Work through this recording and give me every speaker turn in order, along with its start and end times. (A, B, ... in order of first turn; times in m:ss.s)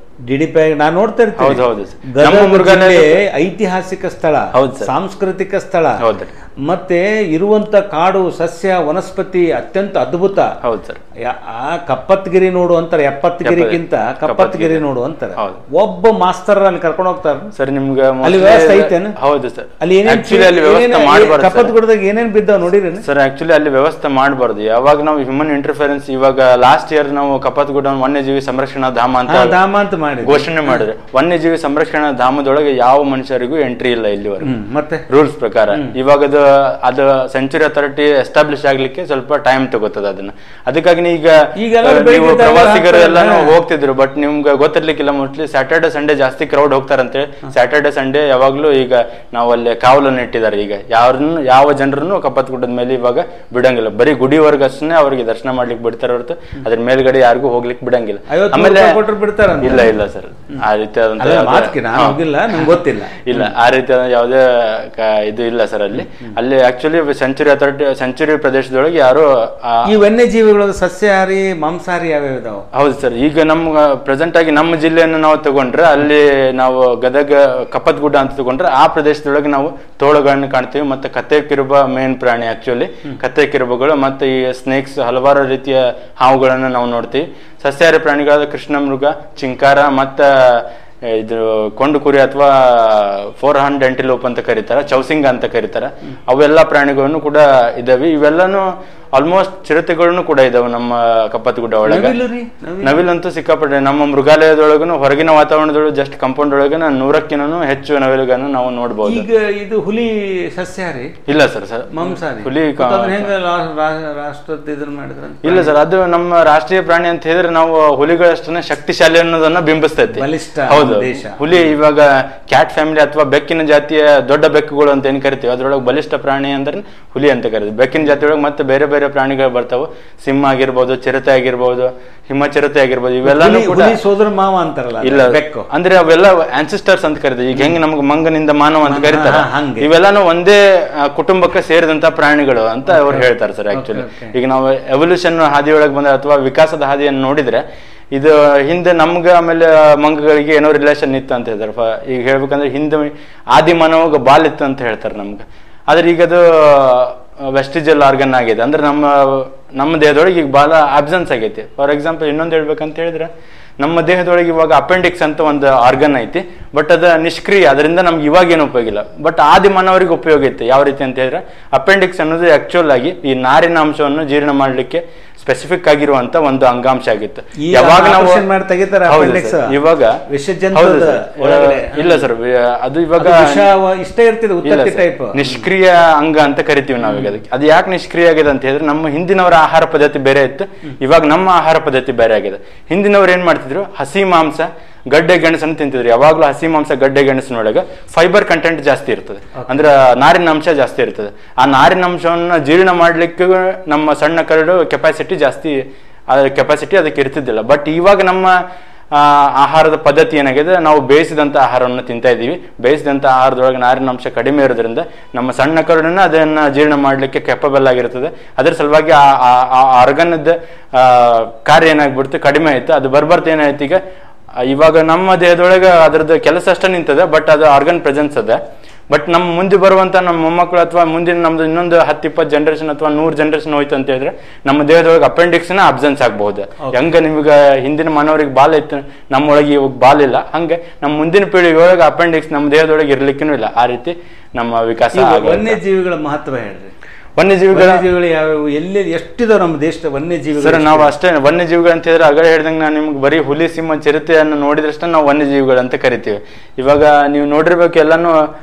0:00.3-0:06.0 A
0:01.4-0:03.2 B
0:04.5-0:04.9 B
0:06.0-0:06.3 B
0:06.6-0:10.5 A
0:10.6-0:11.0 B
0:11.2-0:17.5 A
0:13.4-0:14.8 B
0:15.4-0:15.6 B
0:17.5-0:21.7 B
0:18.2-0:19.2 A
0:19.8-0:23.0 A
0:23.0-0:29.6 B
0:29.3-0:30.8 A
0:30.2-0:34.5 B
0:34.4-0:35.0 A
0:35.1-0:59.0 B
0:41.6-0:43.5 A
0:58.3-0:59.9 A
0:59.6-1:09.9 B
1:01.2-1:03.5 A
1:09.8-1:12.6 A
1:12.7-1:42.2 B
1:41.8-1:43.0 A
1:42.8-1:49.2 B
1:49.0-1:51.2 A
1:51.3-1:53.3 B
1:51.9-1:55.7 A
1:55.4-2:14.0 B
2:00.1-2:01.7 A
2:13.2-2:15.7 A
2:15.0-2:58.4 B
2:18.8-2:19.9 A
2:22.9-2:24.3 A
2:57.6-2:59.7 A
2:59.1-3:00.2 B
3:00.3-3:02.2 A
3:00.7-3:03.6 B
3:03.2-3:05.6 A
3:04.6-3:28.6 B
3:29.1-3:44.0 B
3:44.6-4:05.8 B
4:05.1-4:06.9 A
4:07.4-4:08.0 B
4:07.7-4:11.1 A
4:10.6-4:18.4 B